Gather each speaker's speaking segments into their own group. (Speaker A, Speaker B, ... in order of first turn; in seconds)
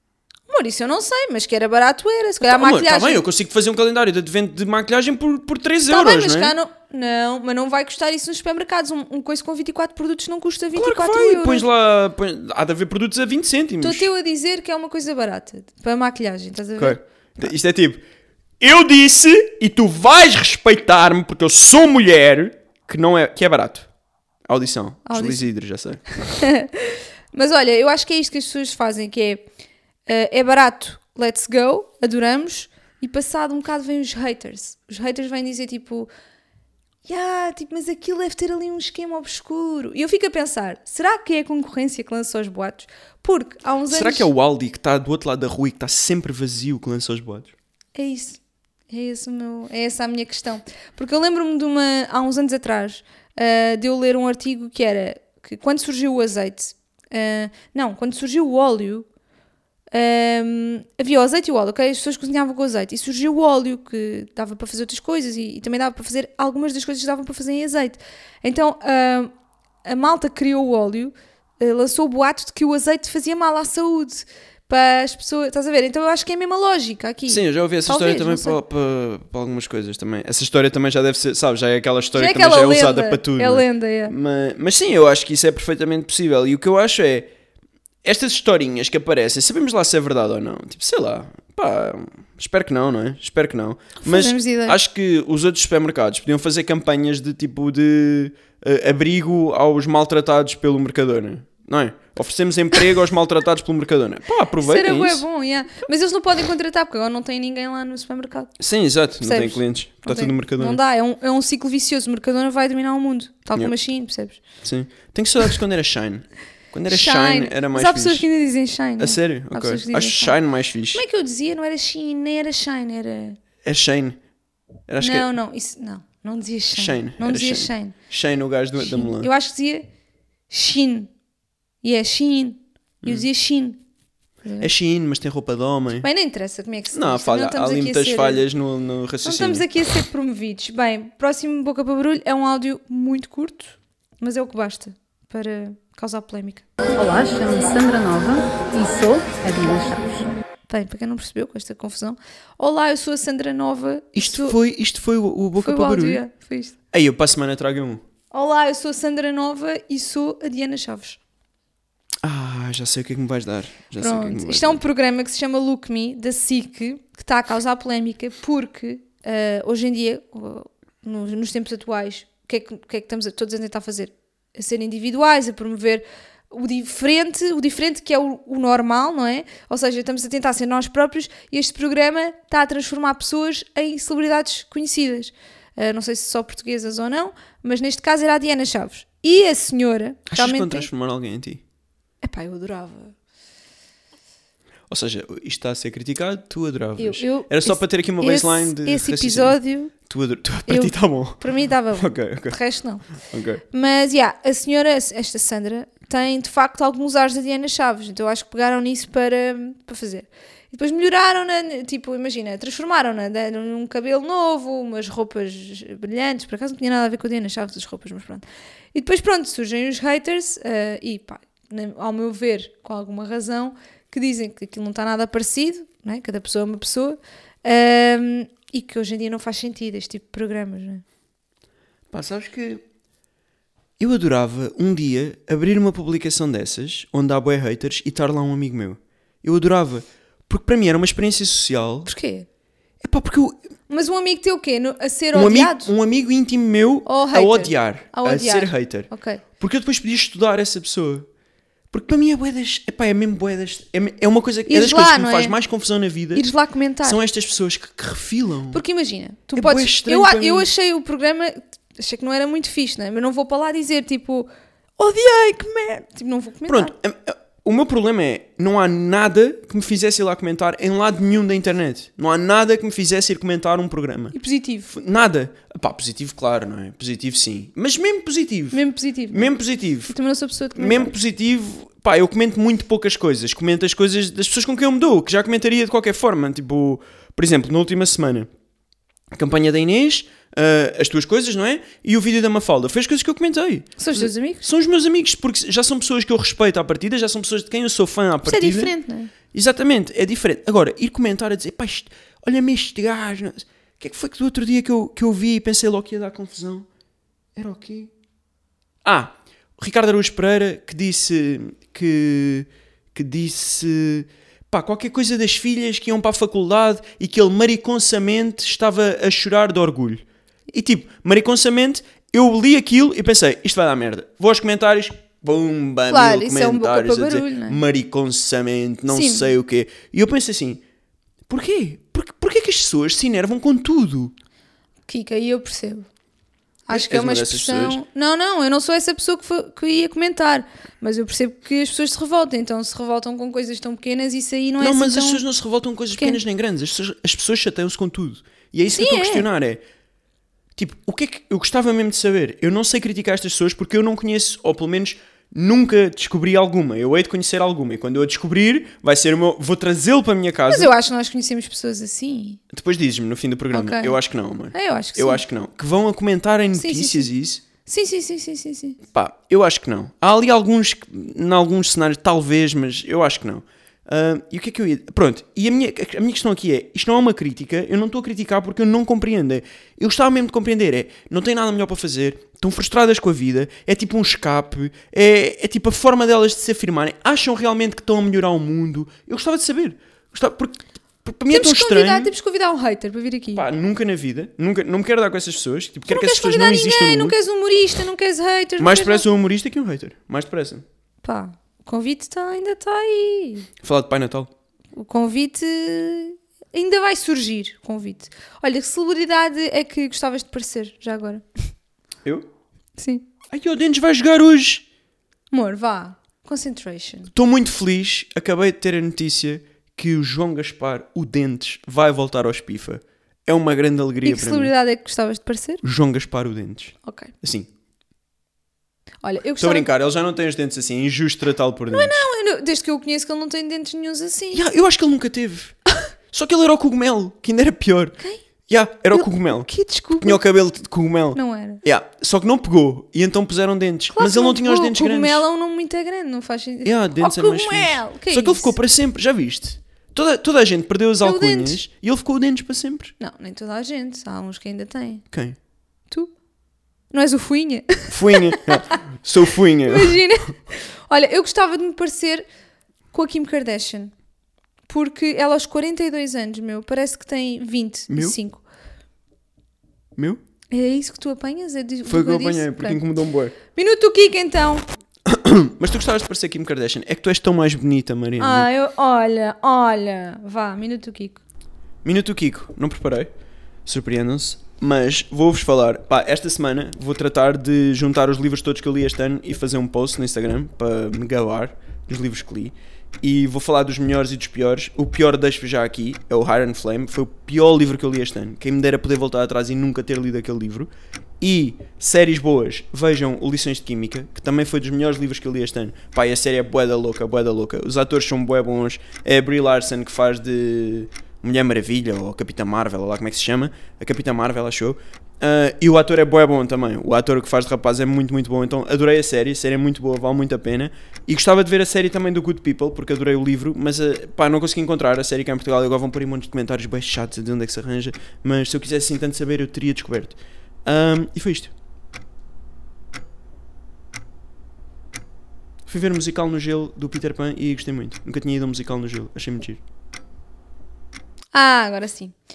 Speaker A: 0.5-3.2, 5.9-11.7, 13.8-17.0, 25.1-25.4, 26.2-29.4, 30.1-36.1, 37.0-44.3, 47.9-59.1, 59.9-69.3, 69.8-78.6, 82.1-84.1, 94.0-94.8, 104.6-108.5, 109.2-114.4, 116.9-120.4, 120.9-123.4, 125.0-127.9, 128.8-129.8, 130.5-131.1, 131.8-133.8, 134.4-134.7, 136.0-138.4, 139.2-146.6, 150.7-154.6, 155.6-156.7, 158.3-161.2, 164.0-190.9, 192.2-193.1, 197.0-199.9, 200.7-203.1, 203.7-231.0, 242.1-242.4, 243.9-245.9, 247.1-249.4, 254.7-255.5, 256.3-257.2, 258.7-266.9, 274.3-274.9, 278.7-281.1, 294.0-294.6, 298.4-299.3, 326.1-327.8, 329.1-329.5, 335.1-336.1, 336.9-345.4, 348.9-349.4, 360.7-362.6, 363.7-364.2, 364.7-365.4, 366.7-367.3, 367.8-369.0, 391.5-393.6, 396.1-399.3, 401.2-403.7, 404.9-411.4, 413.0-413.2, 415.5-417.3, 424.2-425.8, 427.0-427.3, 429.2-429.9, 431.9-434.6, 439.1-440.4, 441.3-441.8, 444.1-448.7, 451.2-451.8, 453.2-455.2, 457.1-459.0, 459.8-462.4, 463.1-464.1, 464.9-468.6, 470.7-473.0, 473.7-474.9, 478.4-481.4, 541.5-542.3
Speaker B: 2.4-6.5, 10.7-14.1, 16.8-18.0, 18.6-23.9, 24.5-26.0, 43.9-47.5, 77.3-87.3, 88.0-105.2, 108.6-110.8, 114.6-118.3, 119.0-121.0, 123.6-124.2, 124.9-125.3, 126.7-129.3, 134.6-136.1, 136.9-139.7, 154.1-156.2, 156.9-158.0, 162.2-164.8, 190.3-191.6, 194.9-202.6, 203.1-203.6, 232.1-232.8, 234.0-242.1, 243.0-243.6, 245.3-251.3, 251.9-256.5, 257.0-258.8, 259.5-260.7, 266.7-274.3, 274.9-280.1, 280.8-288.5, 289.3-298.9, 299.4-306.9, 307.6-308.1, 309.0-330.8, 331.5-334.3, 336.9-338.0, 344.8-349.8, 350.7-360.9, 362.7-367.6, 369.1-392.3, 393.5-397.3, 398.8-400.8, 403.8-404.5, 413.5-414.8, 417.3-424.7, 425.8-427.7, 429.6-432.2, 434.5-435.7, 436.3-445.4, 446.8-453.1, 455.3-455.6, 458.1-460.2, 468.1-468.4, 470.1-470.4, 472.1-473.6, 475.2-478.7, 482.0-483.3, 483.8-531.7, 535.9-539.8
Speaker C: 146.9-150.3